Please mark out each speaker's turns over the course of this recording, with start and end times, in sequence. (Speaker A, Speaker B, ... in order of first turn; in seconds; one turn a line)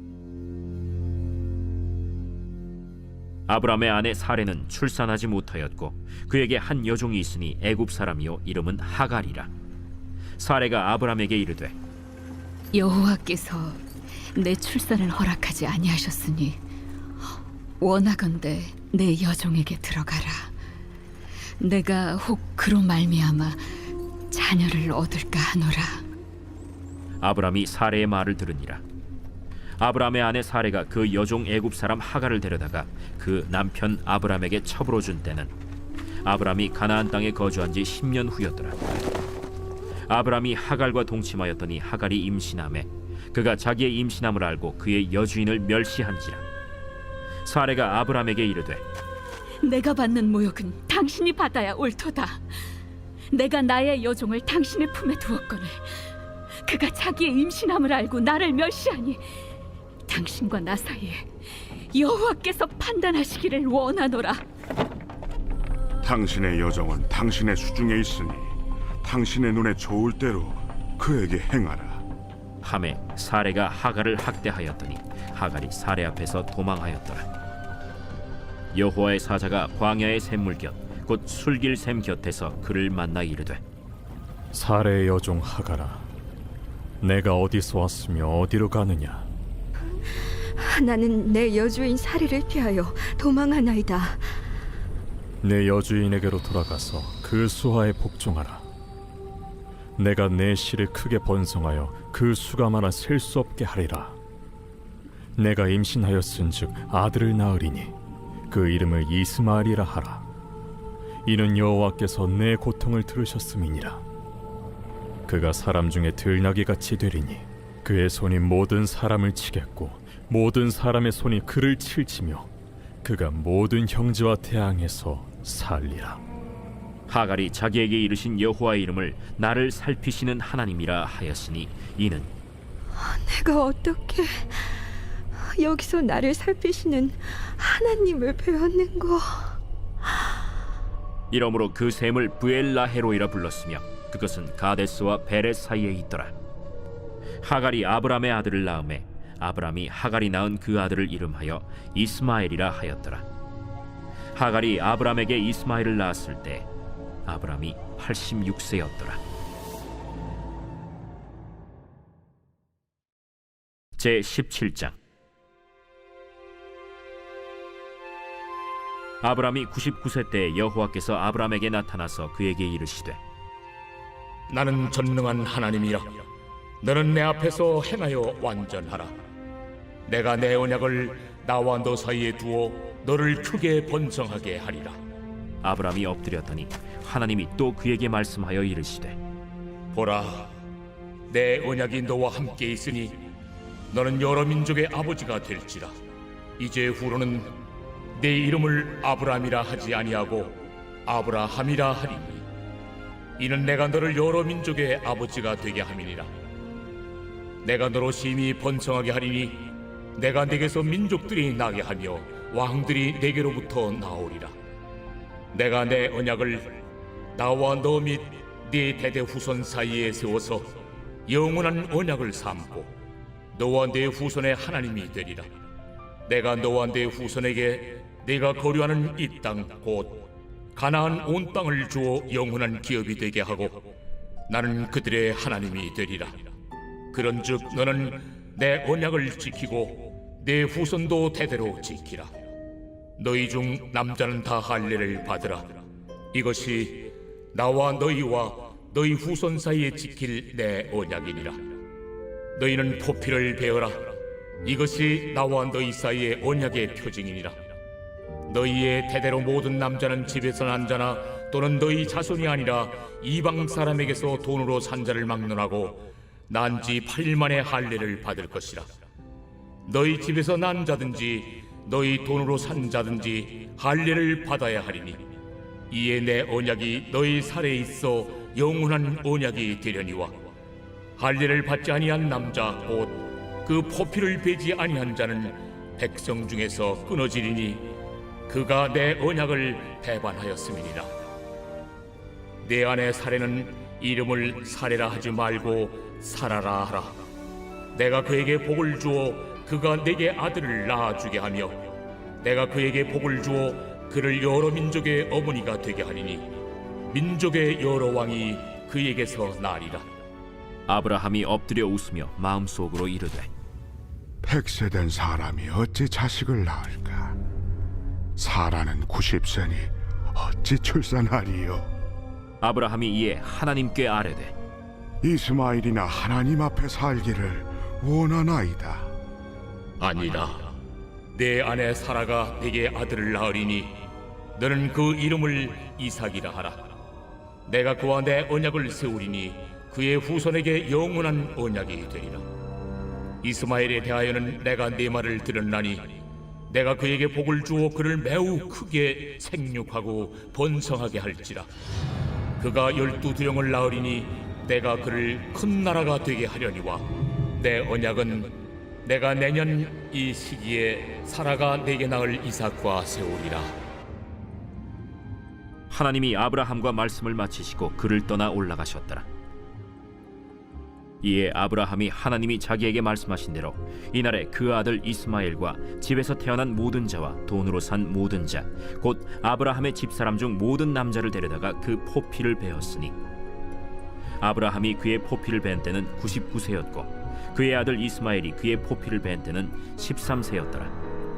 Speaker A: 3.5-9.5
Speaker A: 10.4-11.7
Speaker B: 12.7-13.8
Speaker B: 14.3-16.6
Speaker B: 17.8-20.5
Speaker B: 21.6-23.8
Speaker B: 24.3-26.1
Speaker A: 27.2-28.8
Speaker A: 29.8-35.5
Speaker A: 36.2-38.8
Speaker A: 40.1-46.4
Speaker A: 47.4-48.8
Speaker B: 49.6-52.4
Speaker B: 53.3-55.9
Speaker B: 56.6-59.2
Speaker B: 60.1-61.3
Speaker B: 61.9-64.4
Speaker C: 66.0-72.0
Speaker A: 72.6-77.2
Speaker A: 78.7-83.6
Speaker D: 84.5-86.1
Speaker D: 87.0-89.3
Speaker E: 90.5-94.3
Speaker D: 95.4-98.6
Speaker D: 100.0-104.2
Speaker D: 105.4-107.9
Speaker D: 108.5-110.2
Speaker D: 111.2-114.0
Speaker D: 115.3-122.5
Speaker D: 123.0-126.2
Speaker A: 127.1-132.3
Speaker E: 132.9-139.6
Speaker A: 141.3-146.3
Speaker A: 147.4-153.2
Speaker A: 154.3-156.7
Speaker A: 157.2-159.2
Speaker A: 164.0-165.0
Speaker A: 169.2-173.2
Speaker F: 174.5-176.2
Speaker F: 176.8-179.1
Speaker F: 180.1-185.0
Speaker A: 185.6-189.2
Speaker F: 189.9-190.5
Speaker F: 191.3-193.2
Speaker F: 193.9-195.9
Speaker F: 196.6-197.5
Speaker F: 198.2-202.4
Speaker F: 203.4-206.3
Speaker F: 207.6-214.5
Speaker F: 215.5-216.8
Speaker F: 217.3-220.7
Speaker F: 221.3-222.9
Speaker F: 223.5-225.5
Speaker F: 226.3-233.8
Speaker F: 234.5-236.4
Speaker F: 237.1-242.3
Speaker F: 243.2-245.8
Speaker F: 246.3-251.6
Speaker F: 252.6-257.6
Speaker F: 258.5-268.9
Speaker F: 269.9-275.2
Speaker F: 275.9-280.4
Speaker F: 281.2-287.9
Speaker F: 288.5-291.1
Speaker F: 292.6-297.2
Speaker F: 297.9-301.9
Speaker F: 302.4-306.5
Speaker F: 307.1-310.1
Speaker A: 310.9-313.5
Speaker C: 314.4-317.4
Speaker C: 318.4-321.9
Speaker A: 322.6-324.5
Speaker C: 325.2-329.1
Speaker F: 330.0-330.7
Speaker F: 331.3-334.0
Speaker F: 334.6-336.9
Speaker F: 337.7-342.5
Speaker F: 343.4-346.1
Speaker F: 346.7-351.7
Speaker F: 352.6-357.1
Speaker F: 357.6-363.7
Speaker A: 365.9-369.2
Speaker A: 371.2-383.1
Speaker A: 384.4-390.9